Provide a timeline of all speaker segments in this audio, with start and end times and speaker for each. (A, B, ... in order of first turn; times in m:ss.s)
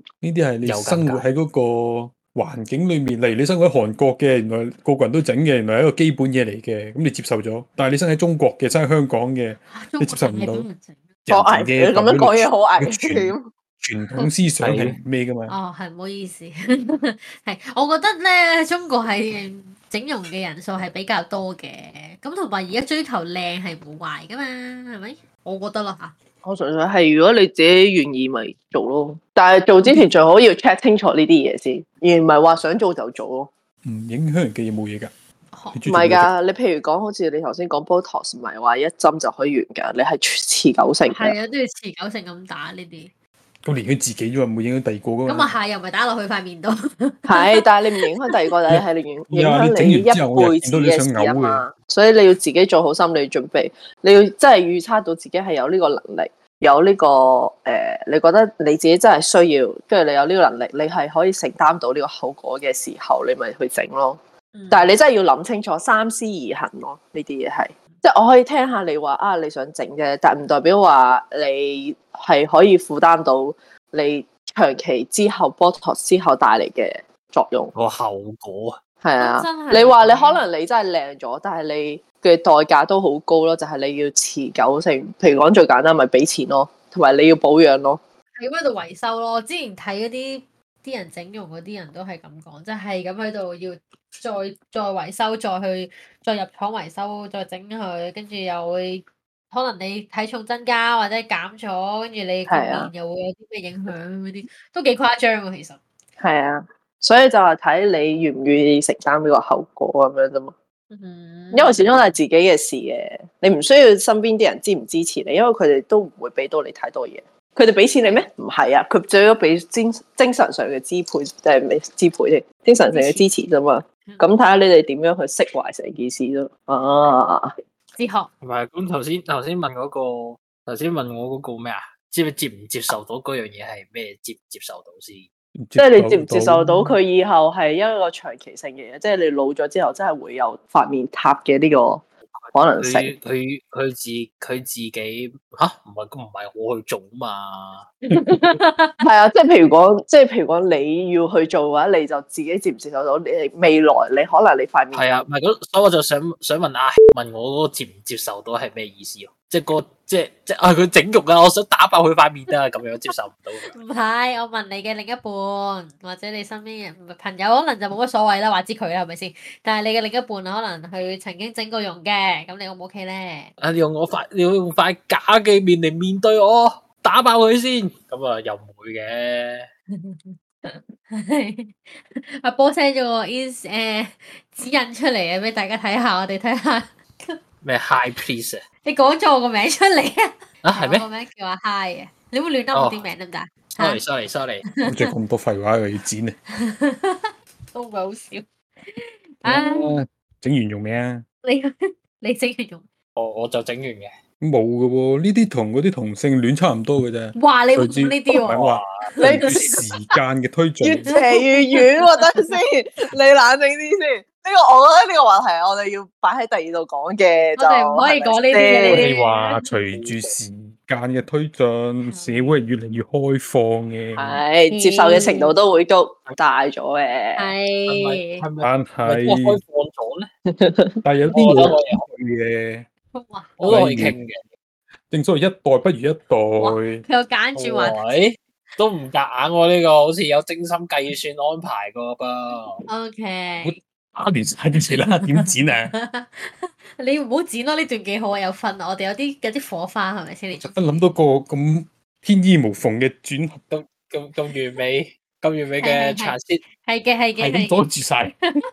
0:00.2-0:10.6 A
0:00.6-0:01.2 B
0:09.7-0:11.0 C
0:11.3-0:15.6 A
0:11.3-0:13.5 D
0:14.6-0:14.9 B
0:15.5-0:26.1 C
0:26.4-0:33.5 D
0:33.8-0:35.1 A
0:35.5-0:35.8 C
0:35.7-0:36.3 A
0:35.9-0:41.4 D
0:41.1-0:43.1 C
0:43.6-0:45.5 A
0:45.3-0:48.4 C
0:47.3-1:04.2 D
0:48.7-0:51.6 A
1:04.5-1:04.9 C
1:04.7-1:17.7 D
1:17.7-1:18.8 B
1:19.0-1:28.0 D
1:19.2-1:20.4 C
1:28.4-1:45.8 C
1:42.5-1:42.9 D
1:46.2-1:50.5 D
1:50.9-1:52.0 C
1:51.5-2:07.5 D
1:58.0-1:58.3 C
2:02.9-2:03.3 C
2:08.0-2:08.3 C
2:08.4-2:15.3 B
2:15.6-2:17.0 A
2:15.8-2:23.1 D
2:22.3-2:27.9 B
2:28.1-2:29.0 C
2:29.0-2:35.1 D
2:34.9-2:43.8 B
2:43.7-2:53.5 C
2:53.6-2:59.7 B
2:59.9-3:07.4 C
3:07.6-3:08.6 B
3:08.8-3:14.0 C
3:10.6-3:11.0 B
3:12.7-3:13.0 B
3:13.8-3:14.6 B
3:14.7-3:15.1 C
3:14.8-3:16.4 A
3:16.5-3:20.0 C
3:19.4-3:21.2 A
3:21.4-3:22.9 C
3:23.2-3:24.1 B
3:24.4-3:31.1 A
3:27.4-3:28.6 C
3:28.5-3:29.1 B
3:29.2-3:29.6 C
3:30.8-3:39.1 D
3:31.1-3:32.5 C
3:37.6-3:39.6 C
3:38.9-3:44.4 A
3:39.9-3:40.3 B
3:42.1-3:42.5 C
3:44.2-3:47.5 D
3:44.7-3:45.6 C
3:47.4-3:48.4 C
3:47.9-3:50.3 B
3:48.6-3:49.6 A
3:50.5-3:51.0 D
3:51.0-3:52.9 A
3:51.3-3:52.0 B
3:53.1-3:53.6 C
3:53.6-3:54.4 B
3:53.6-3:54.1 A
3:55.1-3:57.0 A
3:56.6-3:58.1 C
3:57.6-4:02.8 B
4:02.9-4:03.8 C
4:03.6-4:05.9 A
4:05.2-4:11.0 C
4:10.6-4:13.6 A
4:13.7-4:16.6 B
4:15.8-4:17.8 C
4:17.4-4:18.5 A